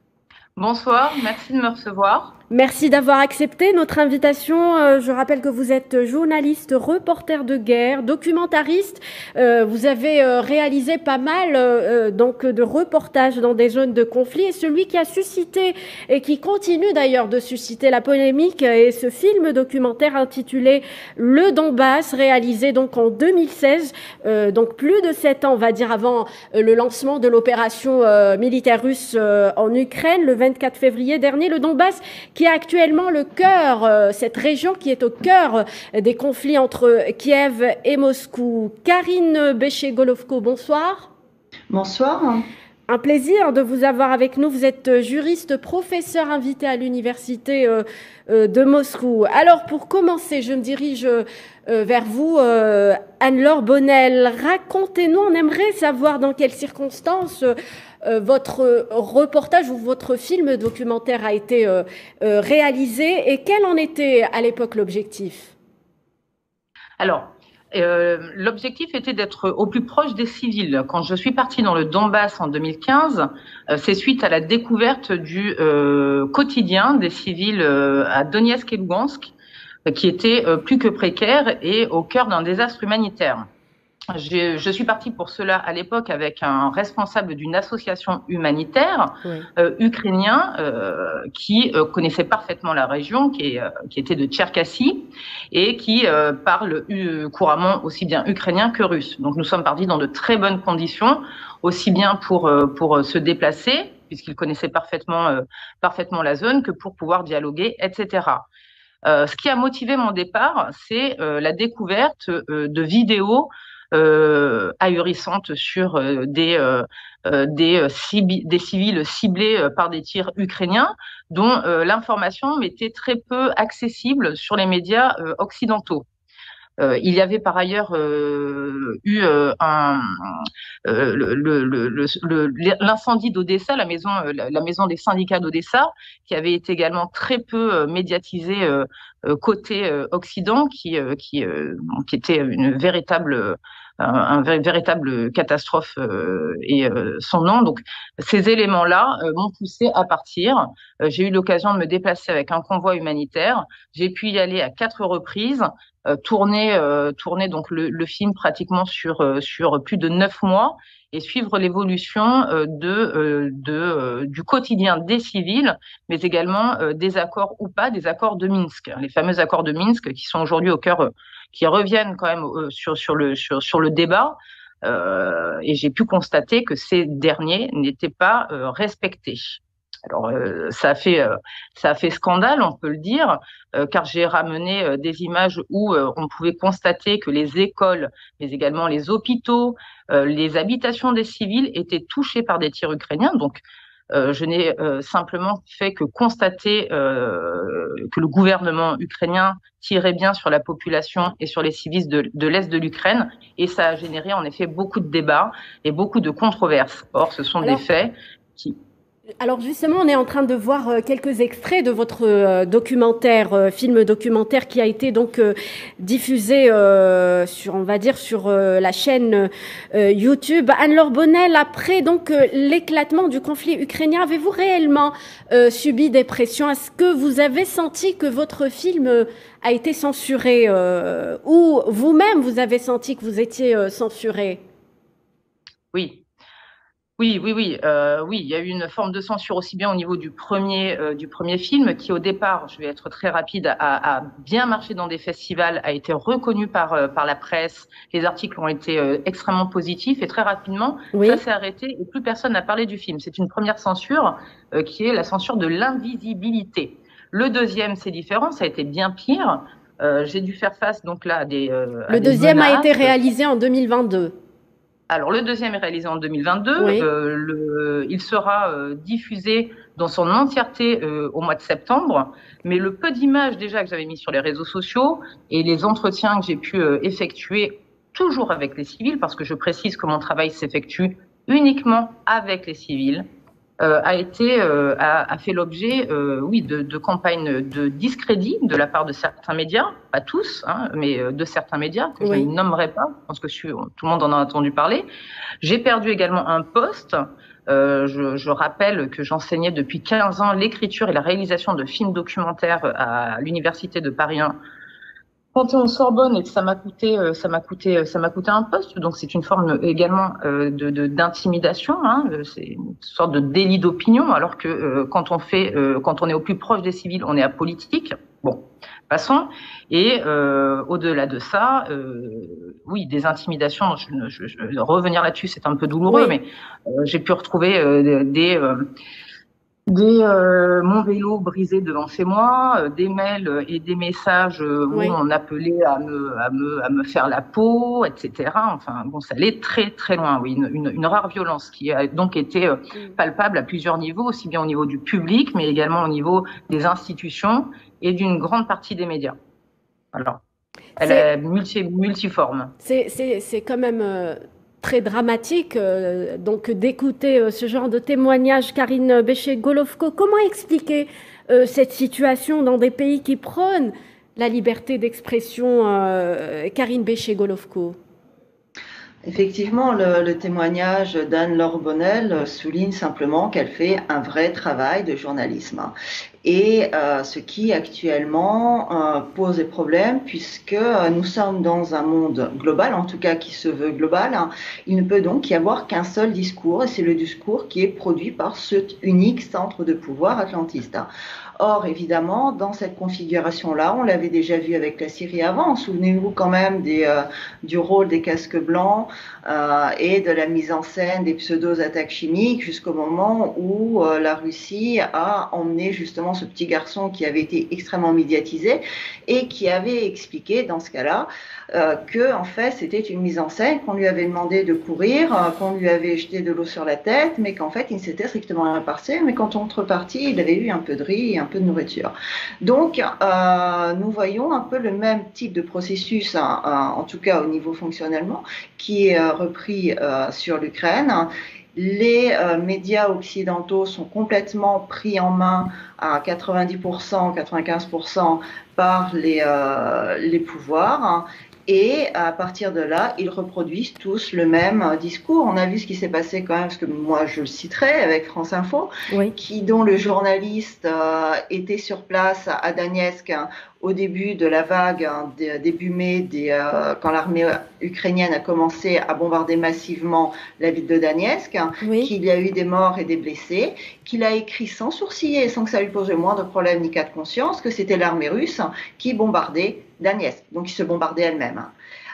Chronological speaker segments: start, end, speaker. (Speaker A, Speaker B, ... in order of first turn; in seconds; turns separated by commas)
Speaker A: 0.6-2.3, Speaker B: 2.5-41.1, Speaker C: 41.7-42.5, Speaker B: 42.9-57.5, Speaker B: 58.0-65.5, Speaker A: 67.0-79.3, Speaker A: 79.9-83.5, Speaker A: 84.1-108.5, Speaker A: 109.0-126.0, Speaker A: 126.8-208.8, Speaker B: 209.4-234.6, Speaker A: 235.9-236.2, Speaker A: 237.2-263.1, Speaker B: 251.1-251.4, Speaker B: 262.1-264.3, Speaker A: 265.1-283.2, Speaker B: 266.8-267.1, Speaker A: 283.8-295.1, Speaker B: 292.2-292.5, Speaker A: 295.6-304.6, Speaker A: 305.5-328.9, Speaker B: 326.1-326.4, Speaker A: 329.9-349.4, Speaker A: 350.1-350.4, Speaker B: 351.0-351.3, Speaker A: 351.0-352.7, Speaker B: 352.8-368.0, Speaker C: 369.2-422.1, Speaker C: 422.6-471.7, Speaker B: 461.8-462.1